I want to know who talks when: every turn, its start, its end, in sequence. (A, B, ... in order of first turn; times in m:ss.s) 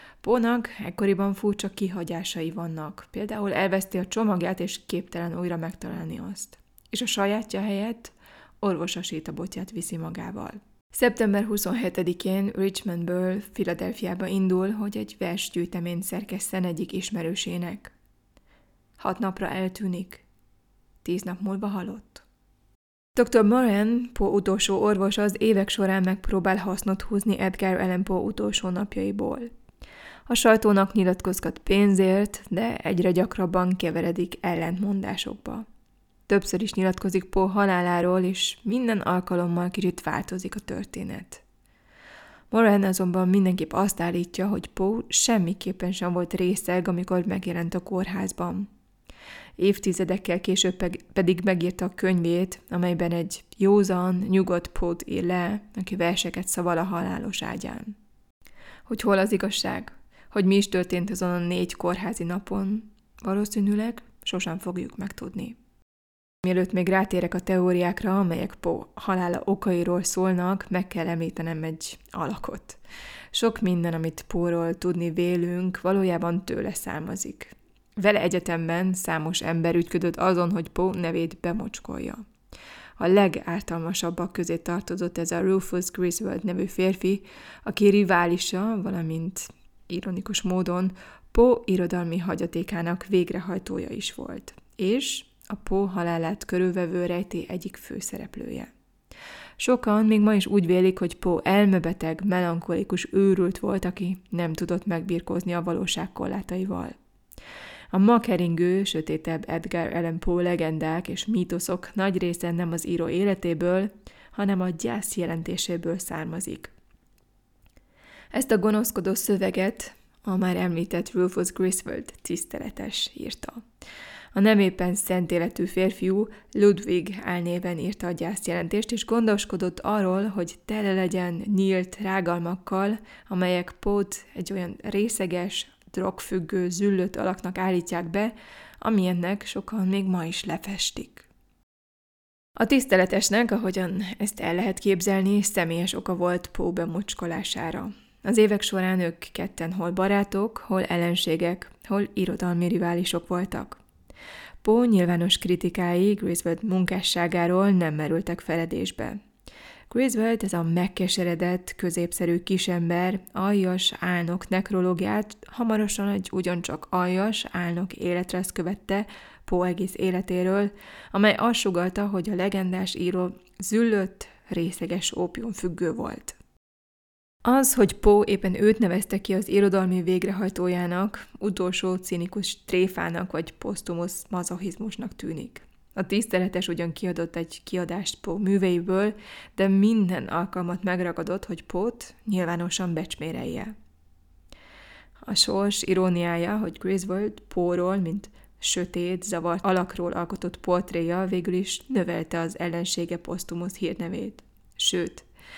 0:00.2-0:17.9 A
0:19.0-0:20.2 A
0:21.0-0:22.2 A
0:23.2-0:29.5 A
0:30.3-0:35.6 A
0:36.3-0:41.4 A
0:42.5-0:48.7 A
0:49.6-0:58.0 A
0:58.9-1:05.6 A
1:06.4-1:12.8 A
1:13.3-1:22.2 A
1:23.0-1:38.7 A
1:39.6-1:47.0 A
1:47.9-1:56.7 A
1:58.3-2:03.6 A
2:04.4-2:21.3 A
2:22.6-2:33.8 A
2:34.6-2:39.2 A
2:39.9-2:56.4 A
2:57.4-3:13.7 A
3:15.3-3:25.2 A